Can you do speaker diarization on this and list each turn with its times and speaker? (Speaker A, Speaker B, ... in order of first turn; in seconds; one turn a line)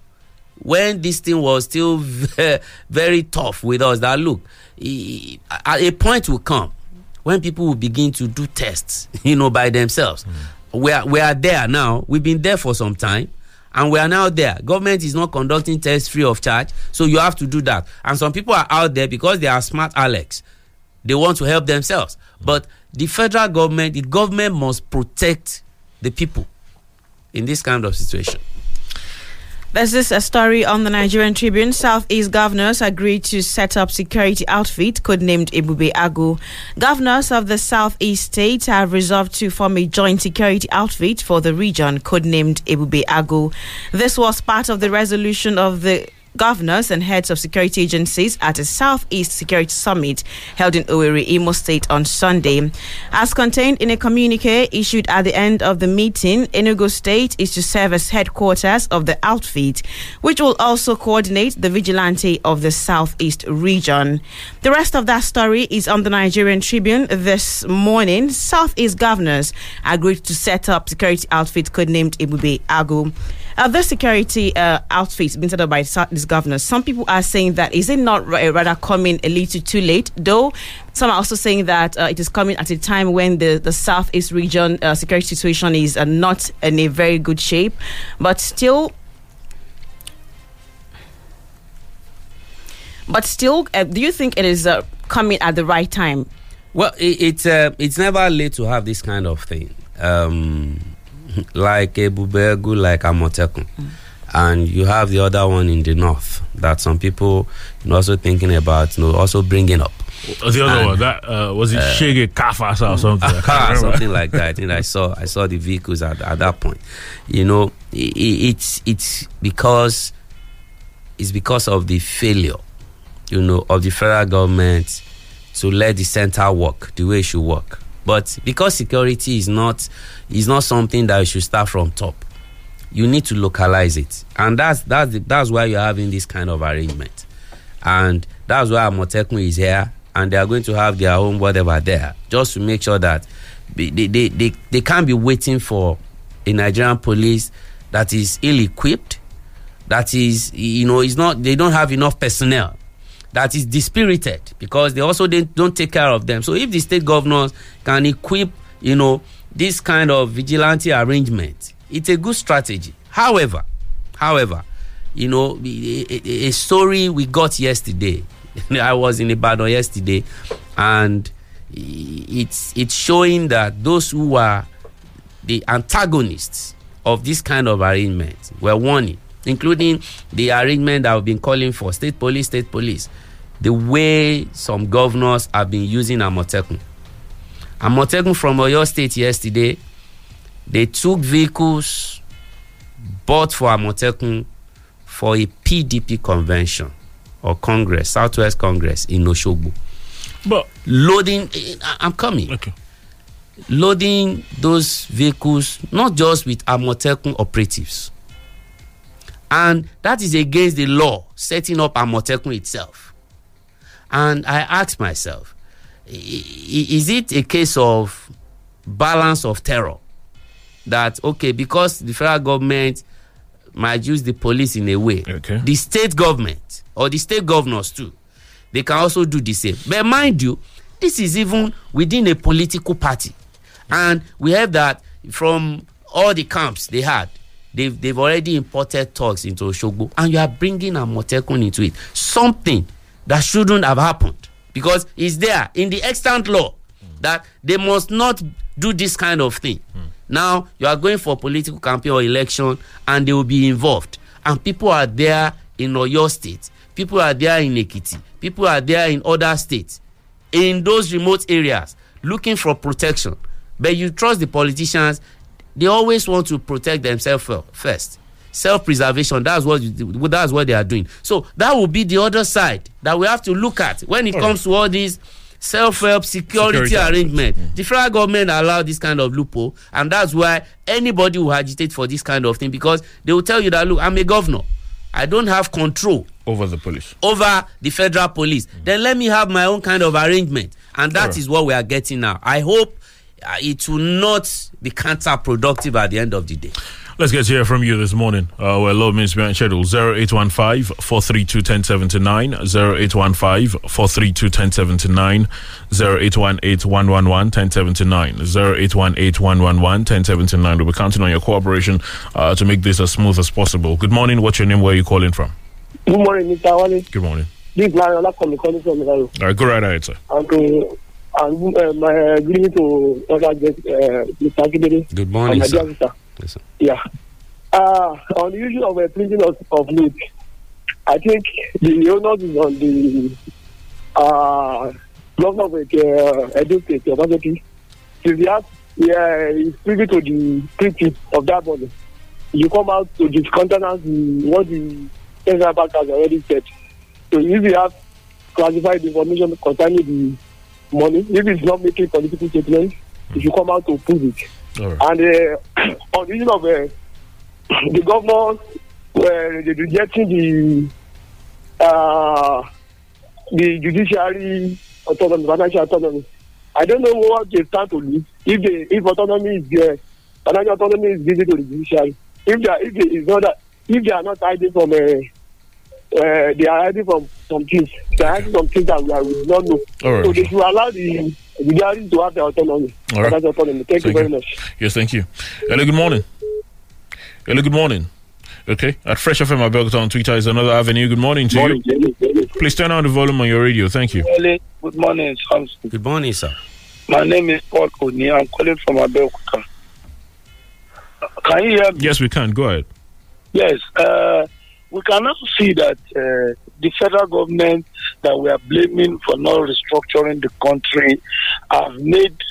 Speaker A: 0.6-6.7
Speaker A: 7.2-20.4
Speaker A: 21.0-26.5
Speaker A: 27.3-28.4
Speaker B: 29.7-88.9
Speaker B: 93.1-96.3
Speaker A: 96.7-103.7
Speaker A: 104.3-110.1
Speaker C: 110.4-114.4
Speaker A: 110.6-111.0
Speaker A: 111.7-112.1
Speaker A: 112.9-120.1
Speaker A: 121.2-122.6
Speaker A: 123.3-125.0
Speaker A: 125.5-132.2
Speaker A: 132.9-137.2
Speaker A: 137.8-149.2
Speaker A: 149.9-152.8
Speaker A: 153.3-163.6
Speaker A: 164.2-174.7
Speaker A: 175.4-183.1
Speaker A: 183.6-186.8
Speaker A: 187.8-189.8
Speaker A: 190.7-192.2
Speaker A: 193.2-194.5
Speaker A: 195.1-199.7
Speaker A: 200.8-202.5
Speaker A: 203.7-208.1
Speaker A: 209.5-213.1
Speaker A: 214.1-215.5
Speaker A: 216.1-218.3
Speaker A: 218.8-220.0
Speaker A: 220.8-223.0
Speaker A: 223.7-228.1
Speaker C: 225.3-225.6
Speaker A: 228.7-233.3
Speaker A: 233.9-260.0
Speaker A: 260.5-265.2
Speaker A: 265.8-286.3
Speaker C: 276.5-277.7
Speaker C: 286.4-287.1
Speaker A: 287.2-296.7
Speaker C: 297.2-315.5
Speaker D: 316.1-317.0
Speaker C: 317.1-317.5
Speaker D: 317.7-319.3
Speaker C: 319.4-320.2
Speaker D: 320.3-326.1
Speaker A: 325.1-326.6
Speaker D: 327.7-330.1
Speaker D: 331.1-333.3
Speaker D: 334.1-337.6
Speaker D: 338.2-341.9
Speaker D: 342.5-346.6
Speaker D: 347.3-347.9
Speaker D: 348.5-350.4
Speaker D: 350.9-354.4
Speaker D: 355.0-356.9
Speaker D: 357.9-358.6
Speaker D: 359.1-360.9
Speaker D: 361.8-362.6
Speaker D: 363.5-366.2
Speaker D: 366.8-375.2
Speaker D: 376.1-384.4
Speaker C: 378.2-378.5
Speaker C: 380.0-380.5
Speaker C: 383.1-383.4
Speaker C: 383.9-386.2
Speaker C: 387.4-388.1
Speaker C: 388.7-391.8
Speaker D: 391.5-392.4
Speaker C: 392.6-394.2
Speaker E: 394.2-395.9
Speaker A: 395.9-396.6
Speaker E: 397.1-399.6
Speaker E: 401.4-402.1
Speaker C: 402.0-402.9
Speaker E: 403.5-411.2
Speaker E: 411.7-412.4